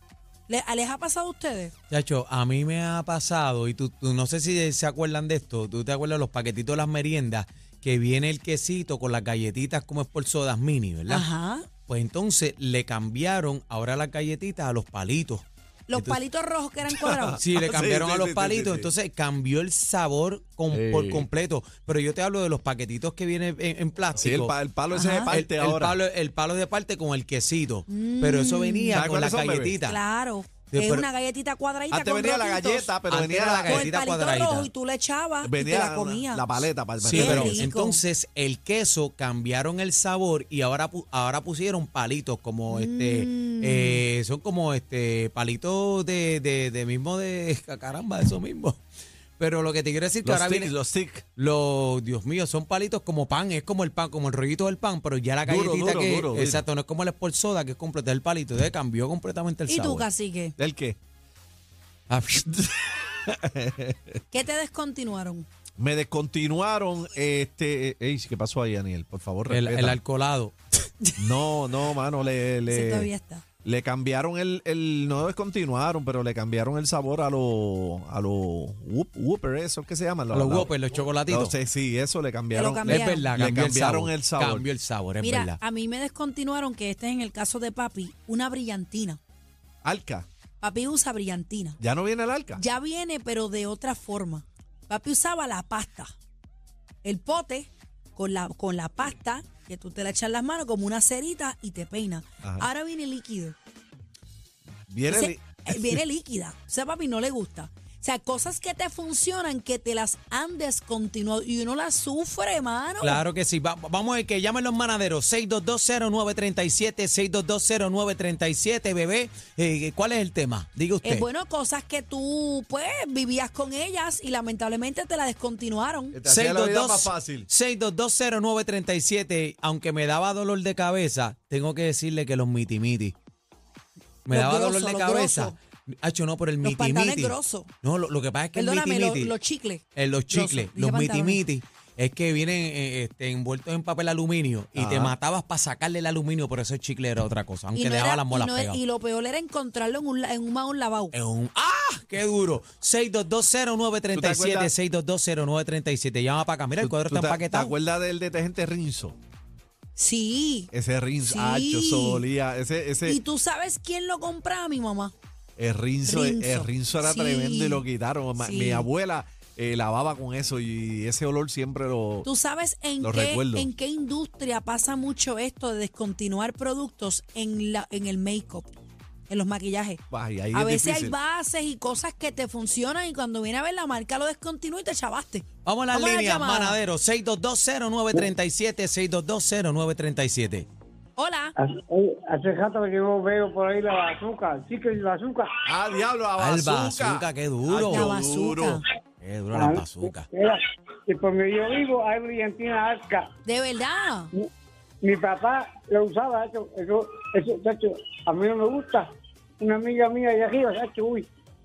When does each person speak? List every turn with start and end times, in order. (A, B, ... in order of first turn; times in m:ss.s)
0:00.5-0:01.7 A
0:01.9-0:11.3 B
0:11.1-0:11.7 A
0:11.9-0:16.2 B
0:15.9-0:17.4 A
0:17.0-0:18.9 C
0:17.4-0:24.5 B
0:20.7-0:21.2 C
0:24.2-0:26.0 C
0:24.9-0:25.3 A
0:25.3-0:30.0 B
0:27.9-0:29.0 A
0:28.9-0:29.7 C
0:29.8-0:32.9 A
0:30.7-0:31.1 B
0:31.9-0:33.9 C
0:33.1-0:34.7 B
0:33.6-0:38.0 A
0:35.4-0:37.7 C
0:37.0-0:48.8 B
0:42.7-0:44.0 A
0:49.4-0:50.7 B
0:50.2-0:51.2 C
0:51.4-1:00.0 B
0:55.4-0:56.6 C
0:59.7-1:00.6 A
1:00.6-1:01.0 C
1:02.1-1:04.2 C
1:04.3-1:05.5 A
1:05.8-1:10.0 C
1:09.5-1:10.5 B
1:11.0-1:11.4 A
1:11.2-1:13.1 C
1:12.7-1:13.4 A
1:13.6-1:24.6 C
1:20.3-1:21.5 B
1:22.5-1:23.3 A
1:22.8-1:25.6 B
1:25.2-1:29.2 A
1:29.8-1:30.2 C
1:30.6-1:31.8 A
1:31.8-1:32.6 C
1:32.6-1:36.1 A
1:37.0-1:43.6 A
1:44.9-1:46.0 C
1:45.1-1:53.2 A
1:53.0-2:01.3 B
2:01.0-2:06.2 A
2:06.1-2:07.5 C
2:06.2-2:13.1 B
2:14.2-2:19.4 B
2:14.3-2:15.6 A
2:16.6-2:17.7 A
2:18.5-2:21.4 A
2:20.0-2:28.8 B
2:24.8-2:25.1 C
2:27.7-2:31.1 A
2:31.1-2:37.7 B
2:34.1-2:34.7 C
2:36.8-2:39.2 C
2:40.0-2:42.2 A
2:40.7-2:43.2 C
2:43.0-2:45.1 A
2:45.6-2:52.3 C
2:46.0-2:47.8 A
2:48.4-2:48.9 A
2:52.2-2:58.7 A
2:53.0-2:53.7 C
2:59.3-3:06.8 A
3:00.1-3:01.1 C
3:05.6-3:10.7 B
3:11.2-3:11.5 A
3:11.6-3:15.5 D
3:15.6-3:18.8 C
3:16.4-3:18.1 B
3:17.8-3:18.8 A
3:19.2-3:20.3 B
3:19.5-3:23.3 D
3:23.4-3:24.3 A
3:25.0-3:31.3 D